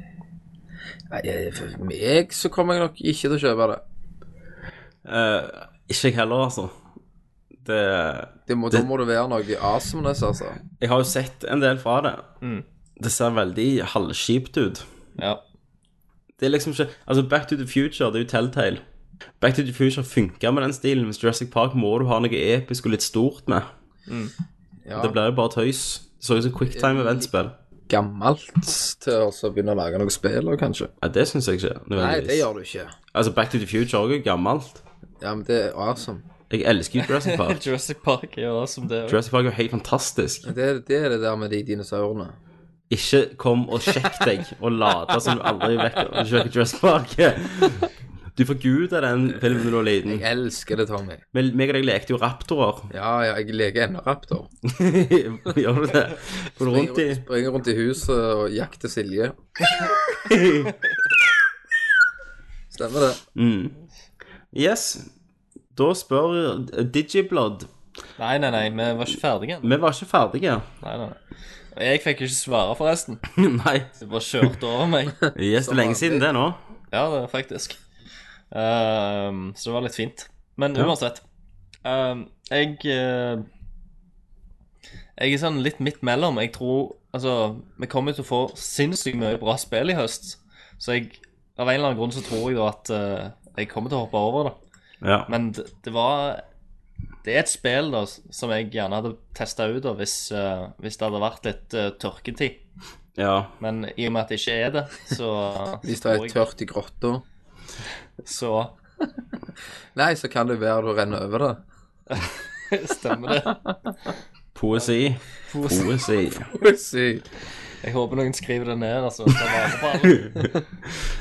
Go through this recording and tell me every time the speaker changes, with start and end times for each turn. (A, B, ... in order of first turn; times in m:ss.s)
0:01.1-0:03.8 A
0:05.0-0:06.7 B
0:07.6-0:08.9 B
0:08.5-0:10.6 A
0:10.8-0:12.2 B
0:13.0-0:14.8 B
0:16.4-0:18.8 B
0:19.4-0:23.7 B
0:24.1-0:24.3 C
0:24.9-0:25.2 A
0:25.0-0:27.6 B
0:26.7-0:27.3 A
0:27.9-0:30.9 A
0:31.0-0:32.5 B
0:32.0-0:33.0 A
0:33.1-0:34.8 B
0:35.2-0:36.2 A
0:36.5-0:37.6 B
0:37.0-0:39.2 C
0:39.1-0:40.5 B
0:40.4-0:42.4 A
0:42.9-0:50.2 B
0:50.0-0:51.2 A
0:51.3-0:52.9 B
0:52.9-0:54.5 A
0:54.6-0:57.2 B
0:56.6-0:59.4 A
1:00.2-1:00.7 B
1:02.7-1:03.2 A
1:03.4-1:03.8 B
1:04.5-1:05.1 B
1:05.8-1:07.7 B
1:08.2-1:09.7 C
1:09.6-1:10.7 B
1:10.8-1:11.2 C
1:11.8-1:13.2 C
1:13.4-1:13.9 B
1:14.0-1:15.3 C
1:15.4-1:16.6 B
1:15.6-1:16.3 A
1:16.9-1:17.8 C
1:18.5-1:21.2 C
1:21.8-1:23.4 C
1:25.2-1:34.6 C
1:35.0-1:35.3 B
1:35.3-1:36.4 C
1:37.2-1:42.6 C
1:43.2-1:43.5 B
1:43.6-1:46.4 C
1:45.8-1:47.2 A
1:48.2-1:48.7 C
1:50.0-1:51.6 A
1:52.1-1:53.8 C
1:54.6-1:56.5 B
1:55.5-1:55.9 C
1:56.5-1:57.3 A
1:57.8-2:00.6 C